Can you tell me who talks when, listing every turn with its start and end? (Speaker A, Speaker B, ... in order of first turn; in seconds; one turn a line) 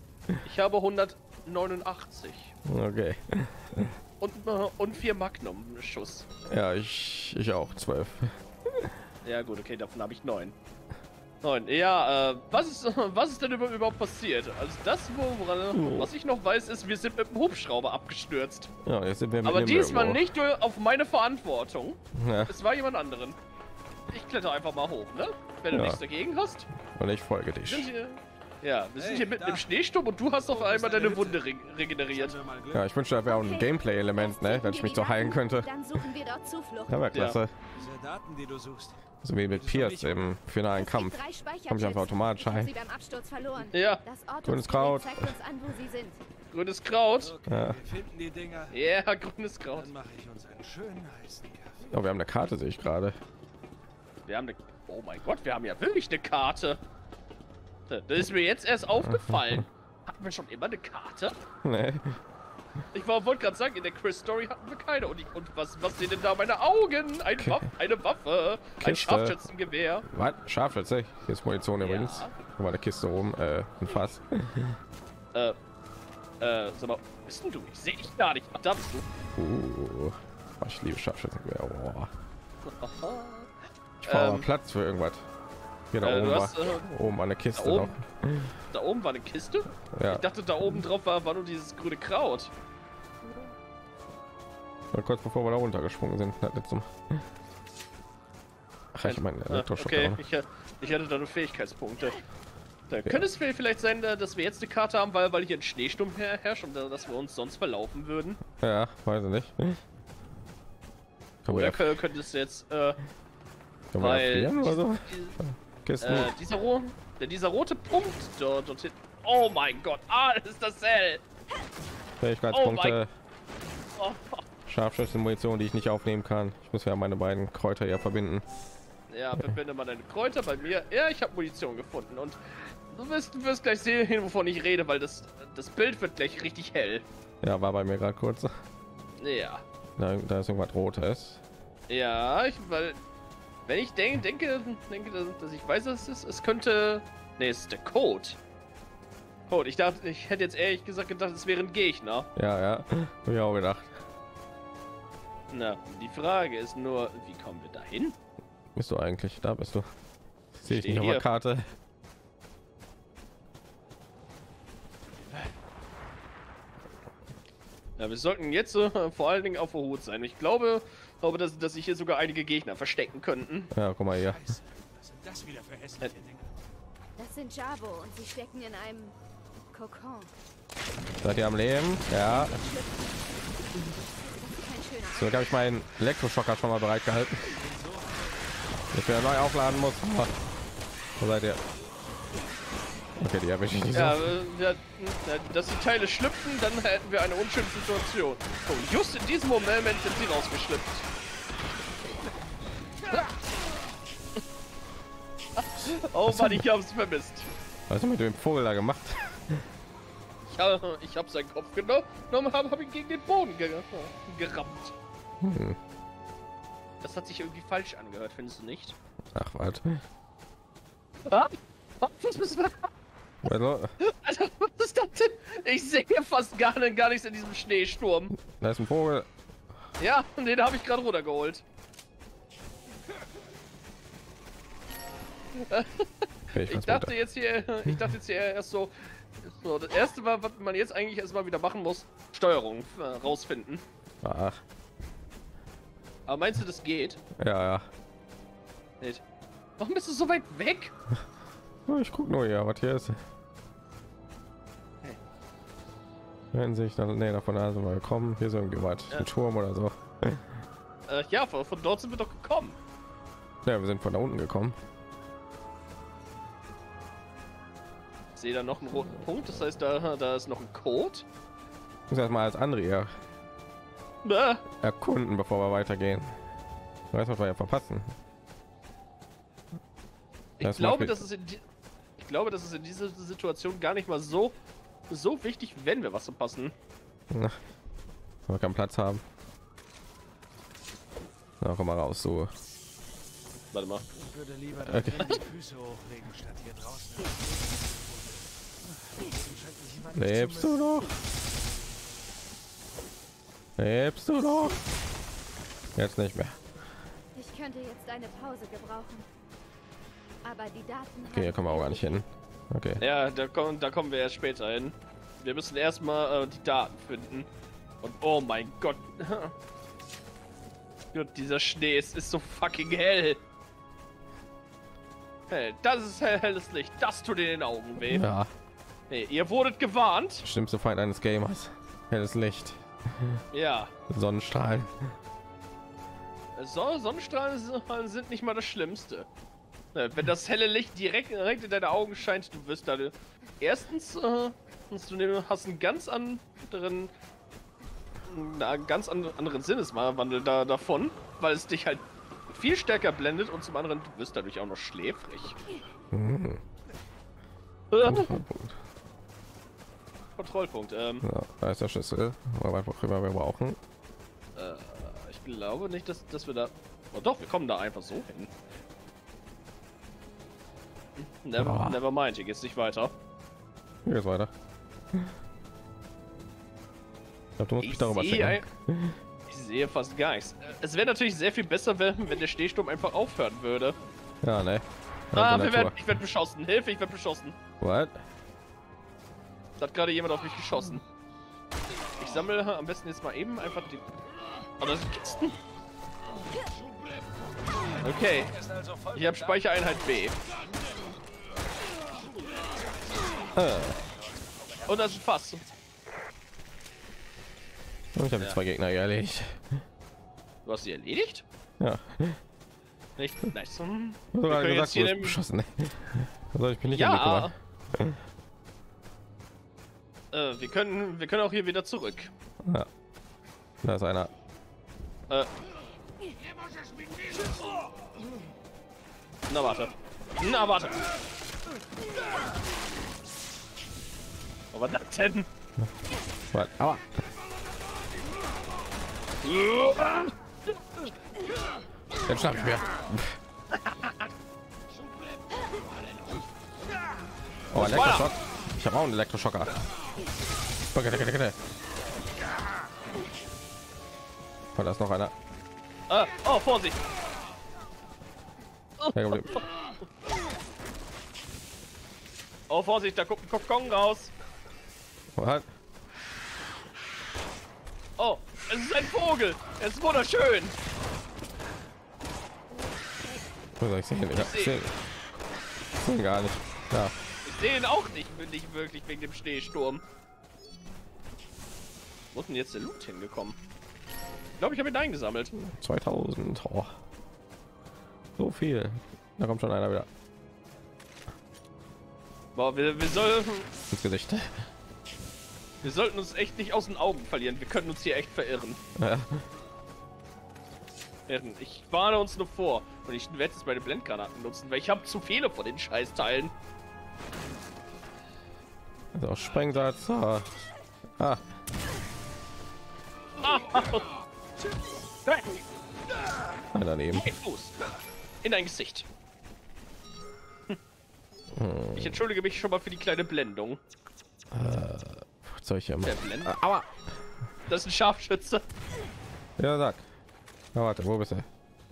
Speaker A: 0.4-2.5
Speaker B: 2.6-3.9
Speaker A: 4.2-6.3
Speaker B: 6.5-8.9
Speaker A: 9.2-10.5
Speaker A: 11.4-18.7
Speaker B: 15.7-16.1
Speaker B: 18.8-20.2
Speaker A: 19.4-23.4
Speaker B: 22.1-22.5
Speaker A: 24.1-26.7
Speaker B: 25.7-26.0
Speaker B: 26.9-27.9
Speaker A: 27.6-32.3
Speaker C: 29.0-29.7
Speaker C: 30.4-31.5
Speaker C: 32.1-32.9
Speaker B: 32.7-36.0
Speaker D: 33.2-37.0
Speaker B: 36.9-37.5
Speaker A: 37.1-37.4
Speaker C: 37.8-40.3
Speaker B: 39.2-41.2
Speaker D: 40.7-46.2
Speaker B: 41.7-42.7
Speaker A: 43.7-44.0
Speaker B: 44.4-45.3
Speaker A: 46.5-47.3
Speaker C: 47.2-48.8
Speaker B: 47.5-47.8
Speaker A: 48.7-49.9
Speaker C: 49.7-51.9
Speaker B: 51.9-53.2
Speaker A: 54.3-56.8
Speaker A: 57.9-61.4
Speaker B: 59.1-59.6
Speaker B: 61.6-62.2
Speaker A: 62.9-70.0
Speaker B: 67.4-67.6
Speaker B: 68.8-69.4
Speaker B: 70.1-74.8
Speaker A: 71.8-72.3
Speaker A: 76.4-79.0
Speaker B: 79.3-82.1
Speaker A: 82.7-83.5
Speaker B: 84.0-85.2
Speaker A: 84.0-84.5
Speaker B: 85.9-88.5
Speaker A: 86.0-86.9
Speaker A: 87.5-87.9
Speaker A: 88.7-92.5
Speaker B: 89.9-90.2
Speaker B: 94.9-97.2
Speaker B: 98.9-100.2
Speaker A: 99.0-102.2
Speaker A: 102.9-108.4
Speaker B: 108.6-109.8
Speaker B: 111.4-111.9
Speaker A: 111.5-113.0
Speaker B: 113.9-116.3
Speaker A: 114.0-115.4
Speaker A: 116.0-121.2
Speaker B: 122.2-123.1
Speaker A: 122.5-123.0
Speaker A: 123.9-124.4
Speaker B: 124.7-128.4
Speaker A: 129.1-137.0
Speaker B: 137.4-138.5
Speaker A: 139.2-139.6
Speaker B: 140.0-141.4
Speaker A: 141.9-143.0
Speaker A: 143.7-148.4
Speaker A: 149.5-152.3
Speaker B: 152.3-153.9
Speaker A: 155.5-158.2
Speaker B: 158.7-159.9
Speaker B: 160.5-161.7
Speaker A: 160.7-161.2
Speaker A: 168.0-173.7
Speaker B: 173.7-174.4
Speaker C: 174.1-176.6
Speaker D: 177.2-179.2
Speaker D: 179.7-180.3
Speaker B: 181.2-182.6
Speaker D: 182.2-183.1
Speaker D: 184.3-185.5
Speaker B: 185.1-187.5
Speaker C: 187.5-188.4
Speaker B: 188.9-190.3
Speaker B: 191.2-191.6
Speaker B: 193.2-194.3
Speaker A: 193.9-201.1
Speaker A: 205.6-207.5
Speaker B: 206.3-206.6
Speaker B: 207.9-209.6
Speaker A: 210.5-214.9
Speaker B: 215.4-215.8
Speaker A: 217.0-218.9
Speaker B: 219.3-220.0
Speaker A: 221.2-222.9
Speaker B: 223.4-223.9
Speaker A: 224.0-228.3
Speaker B: 228.3-229.3
Speaker A: 230.0-231.6
Speaker A: 235.5-243.8
Speaker B: 236.5-237.2
Speaker B: 244.2-244.6
Speaker A: 246.3-247.2
Speaker B: 247.3-247.9
Speaker A: 249.8-250.9
Speaker B: 251.9-253.2
Speaker B: 256.5-260.5
Speaker A: 261.1-262.8
Speaker B: 263.6-264.8
Speaker A: 268.4-271.2
Speaker B: 272.1-273.1
Speaker A: 274.2-274.6
Speaker B: 274.8-276.4
Speaker B: 277.1-278.1
Speaker A: 280.6-281.6
Speaker B: 280.6-281.2
Speaker A: 282.2-284.6
Speaker A: 285.1-286.7
Speaker B: 287.3-287.6
Speaker B: 288.5-289.2
Speaker B: 291.6-292.5
Speaker A: 293.7-294.0
Speaker C: 294.1-300.8
Speaker B: 294.9-295.3
Speaker B: 300.1-301.1
Speaker B: 303.8-304.8
Speaker B: 305.9-306.6
Speaker D: 307.3-309.3
Speaker D: 310.4-312.2
Speaker B: 311.2-313.0
Speaker A: 313.0-317.5
Speaker A: 318.0-319.5
Speaker A: 321.1-323.4
Speaker A: 325.5-328.2
Speaker B: 328.0-328.5
Speaker A: 329.1-330.4
Speaker B: 330.4-333.4
Speaker A: 333.5-333.9
Speaker B: 334.1-335.0
Speaker A: 336.5-339.3
Speaker A: 339.9-347.1
Speaker A: 348.3-355.6
Speaker B: 356.1-356.6
Speaker A: 357.9-358.3
Speaker B: 358.0-358.8
Speaker A: 360.4-361.2
Speaker B: 361.2-363.8
Speaker A: 364.6-368.5
Speaker A: 371.2-373.1
Speaker B: 371.6-372.0
Speaker B: 374.0-374.5
Speaker B: 377.6-379.2
Speaker A: 377.8-378.6
Speaker A: 379.5-384.0
Speaker B: 384.4-386.0
Speaker A: 385.3-387.6
Speaker B: 387.8-388.1
Speaker A: 389.8-391.0
Speaker A: 392.2-394.0
Speaker A: 394.8-395.6
Speaker A: 398.0-398.5
Speaker C: 398.1-399.9
Speaker A: 399.1-400.4
Speaker C: 403.1-405.7
Speaker B: 403.5-404.0
Speaker A: 404.9-405.6
Speaker B: 408.1-409.8
Speaker A: 410.6-411.4
Speaker B: 411.8-412.4
Speaker A: 413.2-415.4
Speaker B: 414.3-418.2
Speaker A: 416.9-417.5
Speaker A: 420.3-422.3
Speaker B: 422.6-422.9
Speaker B: 423.8-424.3
Speaker A: 429.5-431.1
Speaker A: 434.7-435.5
Speaker B: 436.5-437.1
Speaker A: 439.4-440.3
Speaker B: 442.2-443.4
Speaker A: 443.7-444.3
Speaker B: 447.7-449.7
Speaker A: 447.8-448.3
Speaker B: 450.9-451.6
Speaker B: 454.7-455.3
Speaker A: 456.1-457.0
Speaker A: 459.0-459.6
Speaker B: 459.1-459.6
Speaker A: 462.7-464.3
Speaker B: 465.4-465.7
Speaker A: 468.2-470.8
Speaker B: 473.8-474.9
Speaker A: 474.3-474.7
Speaker B: 475.9-477.1
Speaker A: 477.4-480.0
Speaker A: 482.3-483.6
Speaker A: 484.6-485.5
Speaker B: 485.6-486.9
Speaker B: 488.4-490.1
Speaker A: 492.5-493.7
Speaker B: 493.9-494.6
Speaker A: 495.8-498.8
Speaker B: 498.9-499.4
Speaker A: 501.3-506.5
Speaker B: 509.1-510.5
Speaker B: 511.2-511.4
Speaker A: 513.4-514.1
Speaker A: 515.3-515.6
Speaker B: 516.7-517.3
Speaker A: 517.1-517.7
Speaker A: 518.4-519.1
Speaker B: 521.5-522.2
Speaker A: 522.0-523.8
Speaker B: 524.5-526.9
Speaker A: 526.0-526.5
Speaker A: 527.7-528.6
Speaker B: 529.6-530.0
Speaker B: 530.7-531.5